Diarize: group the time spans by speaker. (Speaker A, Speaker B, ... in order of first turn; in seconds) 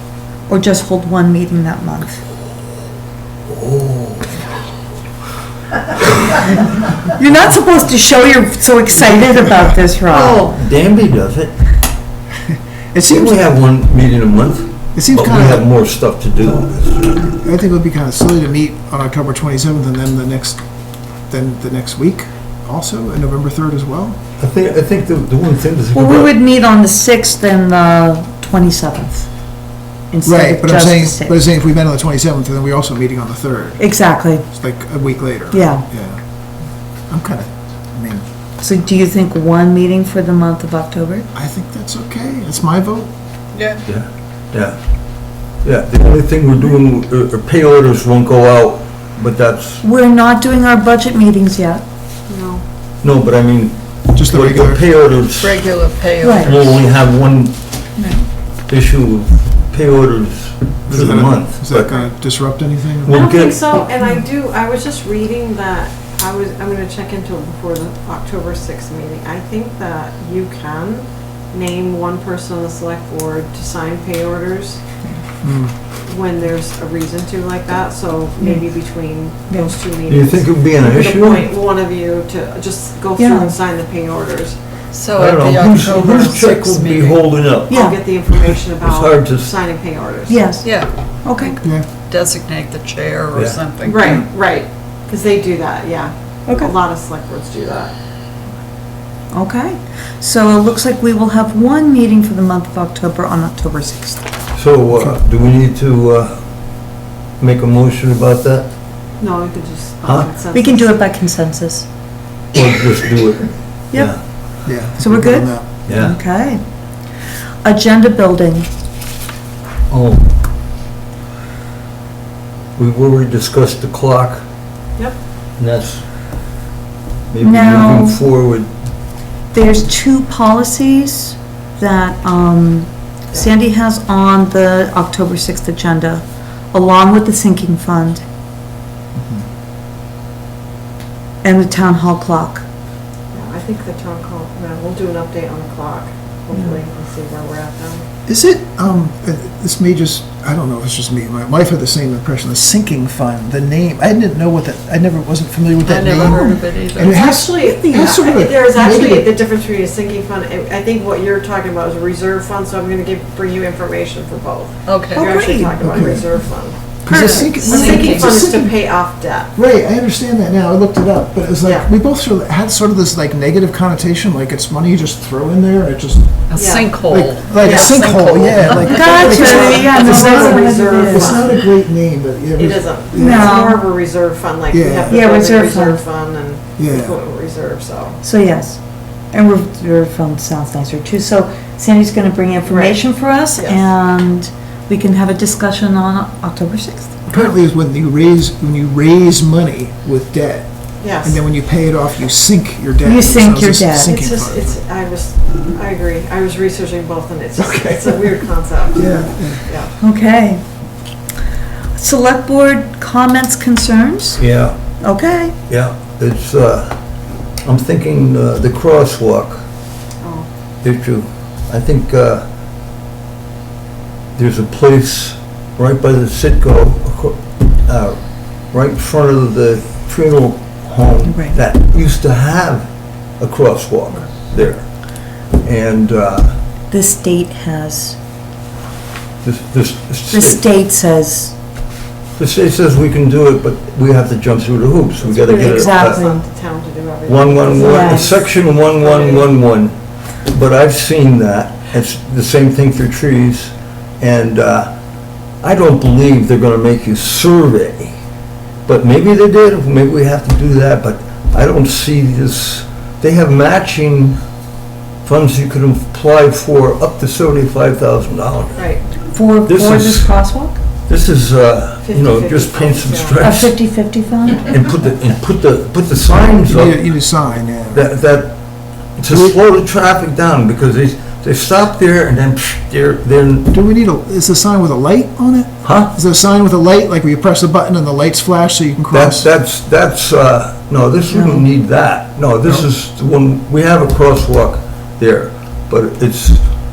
Speaker A: 0.5-2.2, 7.1-10.5, 25.9-29.3, 30.1-31.4, 33.8-34.5, 35.5-35.9, 38.6-41.3, 49.8-51.8, 56.2-56.5, 58.0-58.2, 63.8-64.2, 78.4-78.7, 83.2-83.5, 87.7-88.0, 90.3-90.7, 91.2-91.6, 96.5-96.7, 99.3-104.2, 110.5-111.9, 113.9-114.2, 115.0-116.6, 117.6-118.7, 127.4-128.2, 129.5-138.2, 141.4-142.7, 146.5-146.8, 165.2-165.8, 167.1-167.5, 178.8-181.5, 183.1-183.8, 185.1-186.0, 188.2-188.8, 189.3-197.5, 203.0-204.2, 210.0-210.6, 212.0-214.4, 215.0-215.6, 231.2-231.6, 236.9-238.2, 240.3-241.5, 245.3-246.4, 247.8-248.4, 269.3-270.8, 273.4-274.7
Speaker B: 3.5-4.4, 10.1-11.6, 13.1-17.4, 24.4-26.3, 43.9-44.8, 45.6-49.8, 53.0-55.6, 56.4-57.6, 58.7-62.0, 63.0-63.6, 80.1-81.5, 85.1-89.6, 93.3-93.6, 104.5-106.4, 107.4-108.7, 110.0-110.3, 112.5-114.2, 115.9-116.2, 119.9-120.3, 122.8-124.4, 125.6-126.0, 127.3-128.7, 214.4-214.8, 215.7-217.0, 217.6-219.6, 220.8-222.4, 224.3-228.2, 228.7-232.9, 233.4-234.9, 235.6-236.6, 239.4-240.7, 242.4-246.2, 247.3-249.9, 250.5-254.9, 255.6-258.1, 258.9-264.4, 265.2-268.8, 269.6-270.4, 271.1-273.8, 274.6-277.0, 277.9-278.6, 279.2-283.7, 285.8-286.1, 289.1-296.6
Speaker C: 9.0-9.8, 12.5-13.5, 14.9-15.7, 17.4-20.6, 21.3-24.2, 30.2-33.8, 34.4-36.2, 37.1-38.2, 41.3-43.1, 54.1-54.8, 60.9-63.2, 75.4-75.7, 91.6-91.9, 114.6-115.7, 139.2-139.4, 148.2-159.3, 165.8-166.3, 167.0-168.8, 169.5-176.4, 177.0-183.5, 184.7-185.2, 186.8-187.2, 197.3-204.8, 207.6-208.4, 208.9-209.7, 276.6-278.1, 279.3-279.6, 283.7-289.5
Speaker D: 43.5-43.8, 55.3-56.9, 84.9-87.2, 90.6-94.2, 155.8-157.2, 164.8-165.3, 167.1-168.4, 176.5-180.0
Speaker E: 52.3-52.6, 63.1-74.8, 76.0-84.6, 87.7-90.5, 93.8-97.9, 109.2-110.9, 143.3-148.0, 157.1-169.5, 171.6-171.9, 176.5-177.0, 177.6-178.1, 179.0-181.7, 182.6-188.2, 192.7-193.0, 193.6-193.8, 201.0-201.4, 204.0-209.9, 220.2-220.5, 245.2-249.5, 268.8-269.0, 272.0-273.4